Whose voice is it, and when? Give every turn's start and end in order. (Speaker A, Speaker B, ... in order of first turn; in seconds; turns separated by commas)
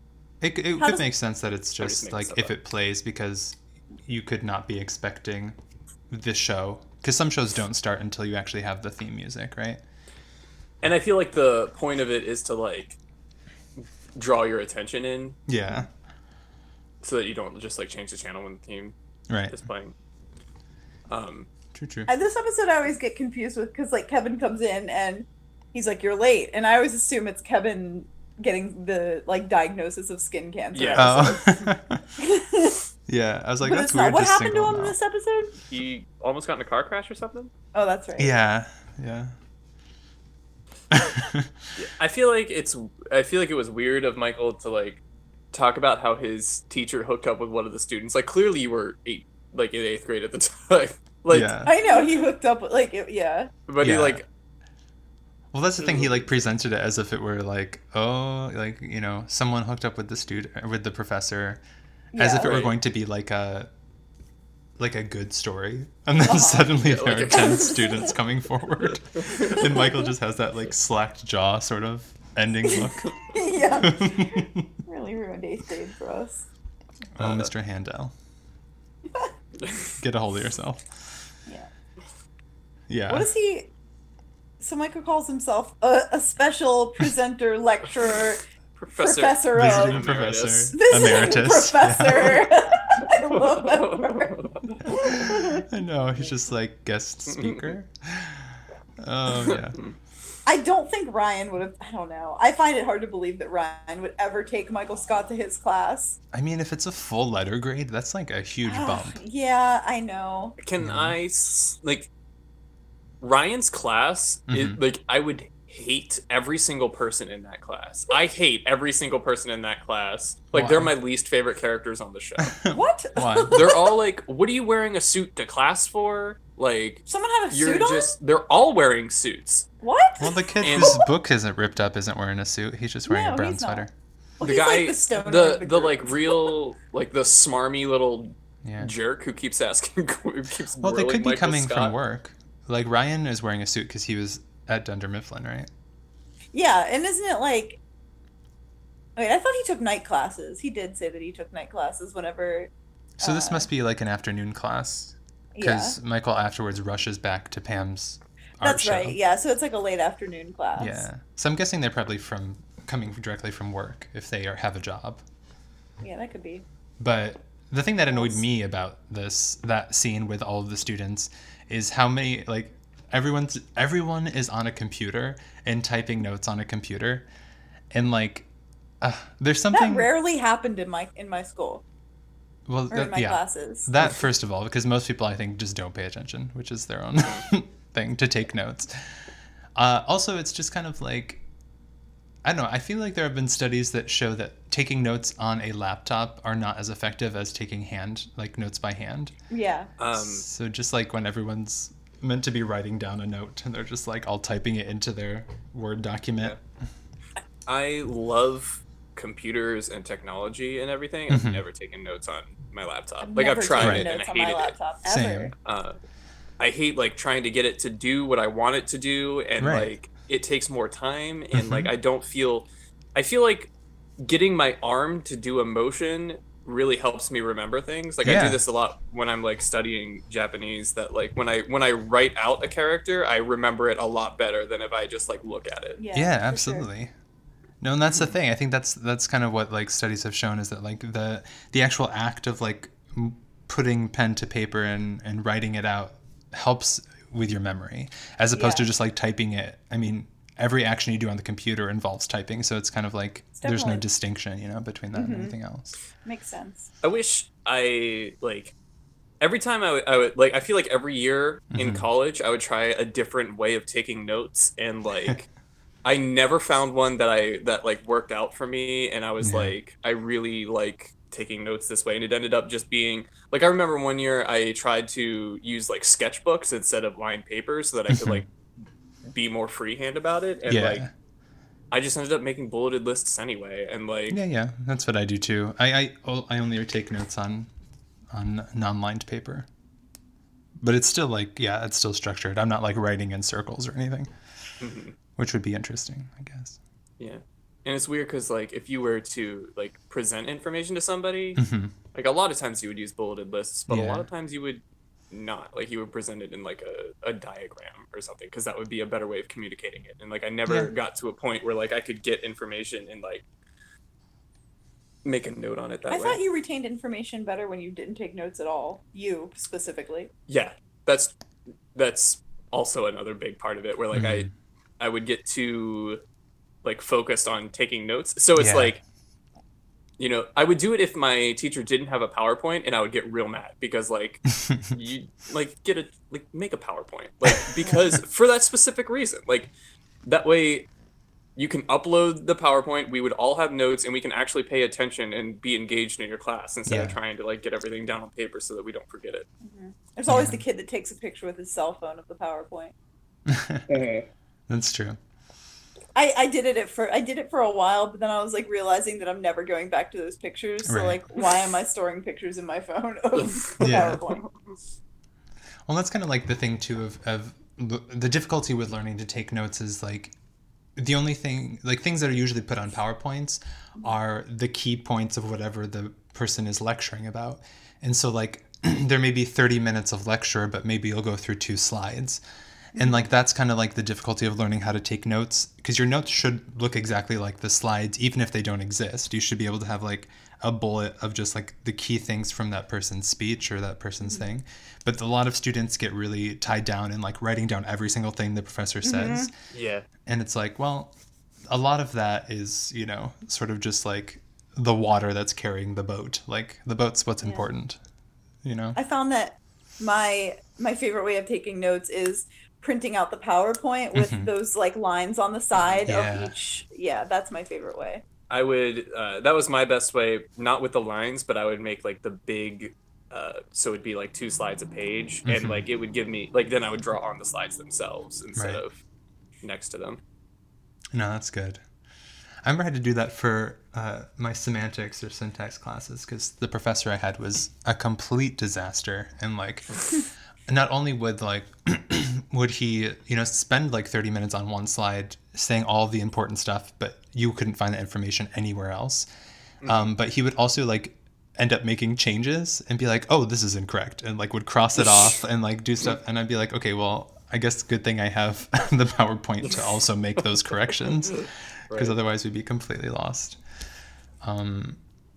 Speaker A: 0.4-5.5, Speaker B: 0.8-1.0, Speaker C: 1.8-2.5, Speaker A: 6.1-9.8, Speaker C: 10.8-13.0, Speaker C: 13.8-15.4, Speaker A: 15.5-15.9, Speaker C: 17.0-18.9, Speaker A: 19.3-19.6, Speaker C: 19.5-19.9, Speaker C: 21.1-21.5, Speaker A: 21.8-22.1, Speaker B: 22.1-31.4, Speaker C: 30.8-31.7, Speaker A: 30.9-32.0, Speaker B: 32.2-32.8, Speaker A: 33.1-35.0, Speaker B: 33.6-35.5, Speaker C: 35.7-37.5, Speaker B: 37.7-38.3, Speaker A: 38.2-39.3, Speaker A: 40.9-41.5, Speaker C: 41.8-45.0, Speaker C: 45.5-51.7, Speaker A: 51.3-51.7, Speaker B: 51.6-53.5, Speaker C: 53.7-54.2, Speaker A: 53.8-54.2, Speaker A: 55.5-61.6, Speaker C: 55.8-56.2, Speaker B: 62.1-62.6, Speaker A: 62.1-63.7, Speaker C: 62.4-62.8, Speaker A: 64.8-73.2, Speaker B: 66.2-66.7, Speaker C: 66.8-67.8, Speaker B: 67.5-68.1, Speaker C: 69.2-69.6, Speaker B: 69.5-69.9, Speaker B: 72.7-76.5, Speaker A: 73.7-74.7, Speaker A: 77.2-78.1, Speaker C: 77.2-77.5, Speaker C: 79.6-79.9, Speaker A: 80.0-80.9, Speaker A: 82.9-83.3, Speaker B: 83.1-83.7, Speaker B: 84.6-88.4, Speaker C: 88.8-90.8, Speaker B: 89.0-90.1, Speaker A: 89.5-92.5, Speaker B: 90.7-95.7, Speaker C: 93.5-94.8, Speaker A: 94.8-99.8, Speaker C: 97.3-97.6, Speaker C: 99.4-99.9, Speaker B: 100.5-106.2, Speaker A: 106.3-109.2, Speaker B: 108.7-110.6, Speaker C: 110.6-112.1, Speaker A: 110.8-111.2, Speaker C: 113.2-122.6, Speaker A: 114.5-114.8, Speaker A: 120.5-120.9, Speaker A: 122.4-123.7, Speaker B: 122.7-123.9, Speaker C: 123.5-129.7, Speaker B: 127.1-128.2, Speaker B: 129.8-131.1, Speaker A: 130.2-133.9, Speaker C: 130.6-131.0, Speaker B: 133.1-133.9, Speaker B: 134.4-136.5, Speaker C: 134.4-141.9, Speaker A: 138.6-138.9, Speaker A: 140.8-145.7, Speaker B: 146.5-147.8, Speaker B: 149.2-152.7, Speaker A: 153.2-159.2, Speaker B: 153.2-153.7, Speaker B: 155.6-156.0, Speaker B: 158.6-161.1, Speaker A: 160.8-165.2, Speaker B: 166.0-166.7, Speaker A: 167.0-177.3, Speaker B: 168.1-168.4, Speaker A: 177.9-178.5, Speaker A: 179.0-180.1, Speaker B: 179.7-181.8, Speaker A: 182.7-189.1, Speaker B: 182.9-183.9, Speaker A: 189.8-191.4, Speaker A: 192.4-199.3, Speaker B: 199.5-199.9, Speaker C: 200.0-200.4, Speaker A: 200.1-206.6, Speaker C: 207.7-214.7, Speaker A: 211.3-211.6, Speaker B: 213.2-215.5, Speaker A: 213.8-214.1, Speaker A: 215.1-215.5, Speaker C: 215.6-216.0, Speaker C: 216.6-236.0, Speaker A: 219.6-219.9, Speaker A: 221.5-221.9, Speaker A: 228.2-228.6, Speaker B: 236.0-236.9, Speaker A: 236.1-237.1, Speaker A: 237.8-256.0, Speaker B: 248.6-248.9, Speaker B: 253.6-254.1, Speaker B: 255.1-255.6, Speaker B: 256.2-256.9, Speaker C: 257.0-258.7, Speaker C: 259.4-265.5, Speaker A: 261.8-262.1, Speaker C: 266.1-278.5, Speaker A: 269.4-269.8, Speaker A: 278.1-278.4, Speaker C: 279.2-281.0, Speaker A: 280.7-281.1, Speaker C: 281.9-284.4, Speaker A: 284.3-287.7, Speaker A: 288.3-289.7, Speaker A: 290.8-294.3, Speaker C: 294.8-295.1, Speaker A: 295.4-296.8, Speaker C: 297.2-301.6, Speaker A: 301.6-301.9, Speaker C: 302.1-313.4, Speaker A: 303.9-304.3, Speaker A: 310.7-310.9, Speaker C: 315.2-316.4, Speaker B: 316.1-320.3, Speaker C: 320.5-321.3, Speaker C: 321.9-324.5, Speaker A: 324.1-324.5, Speaker C: 325.0-326.2, Speaker C: 326.8-329.0, Speaker A: 328.6-328.9, Speaker C: 330.2-339.7, Speaker C: 340.2-340.9, Speaker C: 341.6-349.5, Speaker A: 346.9-347.2, Speaker B: 349.6-352.9, Speaker A: 350.3-350.6, Speaker A: 353.5-353.9, Speaker C: 353.9-354.2, Speaker A: 354.7-355.2, Speaker B: 356.1-364.5, Speaker A: 360.9-361.2, Speaker C: 363.4-364.4, Speaker A: 363.8-364.2, Speaker A: 365.9-370.3, Speaker A: 371.0-382.4, Speaker B: 382.9-383.2, Speaker A: 382.9-399.5, Speaker B: 399.0-399.5, Speaker C: 399.7-400.1, Speaker A: 400.3-401.1, Speaker A: 401.7-408.0, Speaker B: 407.4-407.7, Speaker A: 408.6-409.0, Speaker B: 409.0-418.2, Speaker A: 414.1-414.5, Speaker A: 416.1-416.5, Speaker C: 418.5-429.0, Speaker A: 425.4-425.8, Speaker A: 428.6-428.8, Speaker C: 429.6-430.2, Speaker A: 431.1-431.8, Speaker A: 432.6-440.0, Speaker A: 440.7-449.3, Speaker C: 449.8-450.1, Speaker A: 449.8-463.6, Speaker C: 461.3-462.1, Speaker A: 464.4-465.0